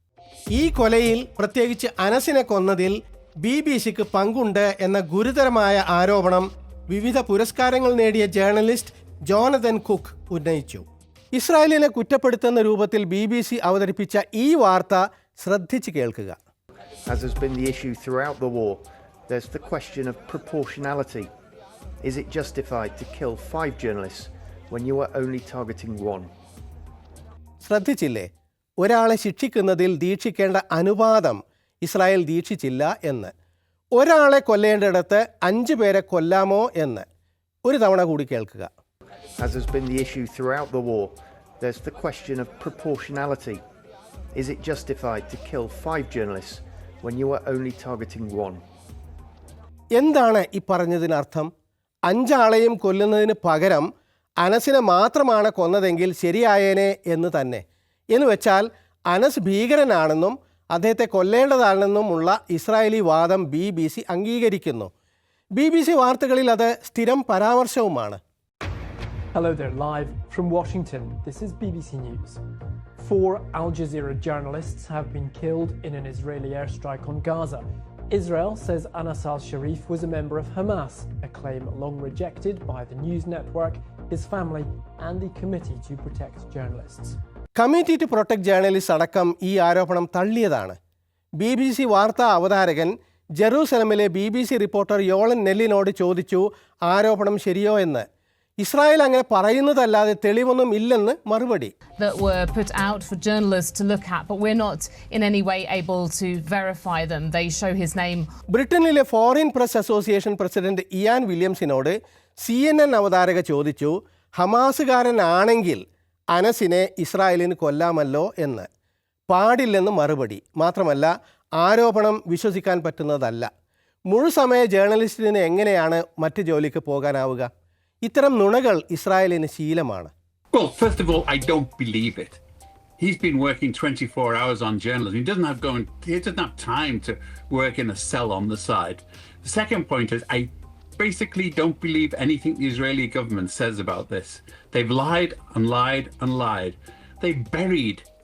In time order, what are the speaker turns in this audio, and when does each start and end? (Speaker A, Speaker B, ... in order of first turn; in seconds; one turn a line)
Speaker A: 0.5-16.4
Speaker B: 17.1-21.3
Speaker B: 22.0-26.3
Speaker A: 27.6-28.3
Speaker A: 28.8-33.3
Speaker A: 34.0-37.0
Speaker A: 37.6-38.7
Speaker B: 39.4-43.6
Speaker B: 44.4-48.6
Speaker A: 50.0-51.5
Speaker A: 52.1-53.9
Speaker A: 54.4-64.9
Speaker A: 65.5-68.2
Speaker C: 69.3-72.4
Speaker C: 73.0-87.2
Speaker A: 87.6-90.8
Speaker A: 91.4-98.0
Speaker A: 98.6-101.7
Speaker D: 102.0-108.2
Speaker A: 108.5-115.8
Speaker A: 116.3-118.7
Speaker A: 119.3-121.1
Speaker A: 121.6-123.5
Speaker A: 124.1-127.5
Speaker A: 128.0-130.1
Speaker E: 130.5-132.4
Speaker E: 133.0-148.0